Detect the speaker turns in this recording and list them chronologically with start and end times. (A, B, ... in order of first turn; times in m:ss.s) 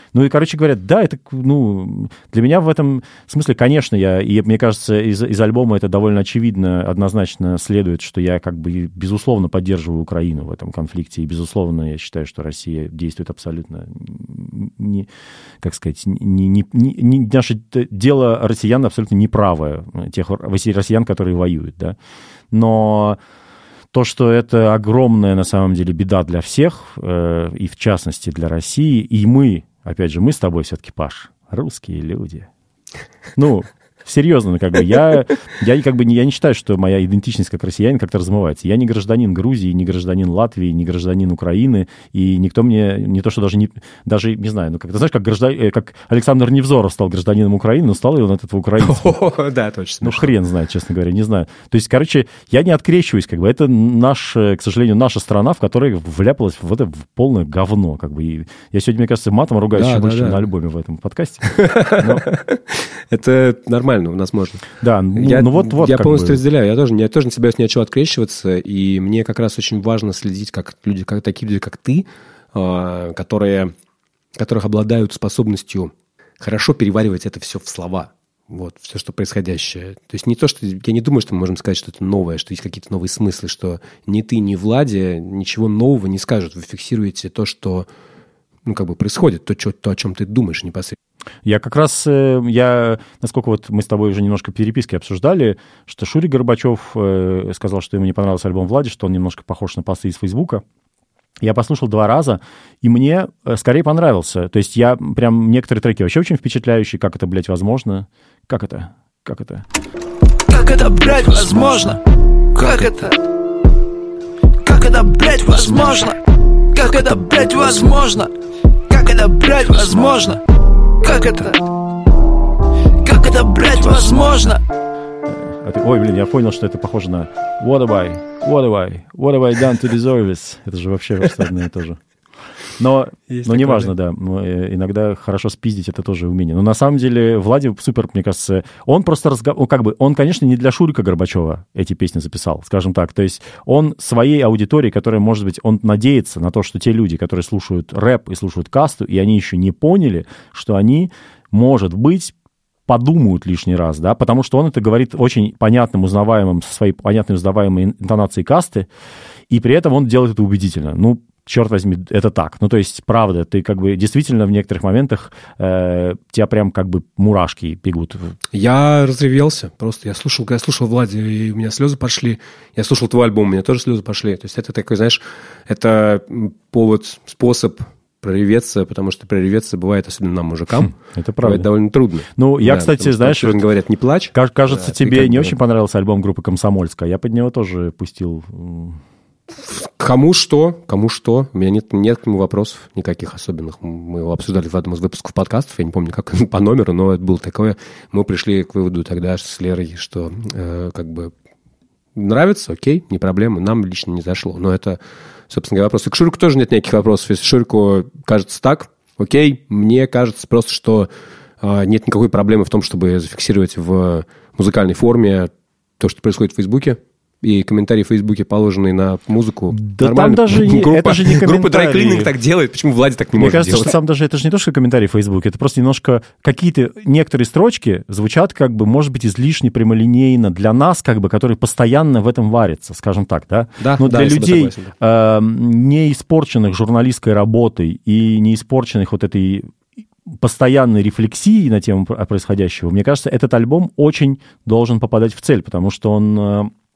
0:00.1-0:15.1 A
0:15.6-0:22.0 A
0:22.5-0:23.2 A
0:23.9-0:32.5 A
0:33.4-0:49.2 A
0:48.8-0:50.3 B
0:50.0-1:02.2 A
0:59.8-1:00.4 B
1:01.4-1:13.7 B
1:04.8-1:06.4 A
1:14.4-1:27.9 B
1:28.7-1:31.0 B
1:31.4-1:40.6 A
1:41.4-1:49.6 A
1:50.5-1:52.0 C
1:51.3-1:51.8 A
1:52.6-1:53.2 C
1:54.6-1:56.2 C
1:56.8-1:58.3 C
1:58.9-2:00.4 C
2:01.0-2:01.6 C
2:03.0-2:04.6 C
2:05.3-2:12.0 A
2:12.8-2:32.3 A
2:13.3-2:13.9 B
2:32.9-2:38.9 A
2:39.5-2:48.3 A
2:48.5-3:05.6 B
3:01.2-3:01.7 A
3:02.2-3:03.6 A
3:04.3-3:09.0 A
3:09.5-3:21.3 B
3:22.2-3:44.0 B
3:39.7-3:42.3 A
3:43.4-3:59.7 A
3:53.8-3:54.9 B
4:00.3-4:06.7 A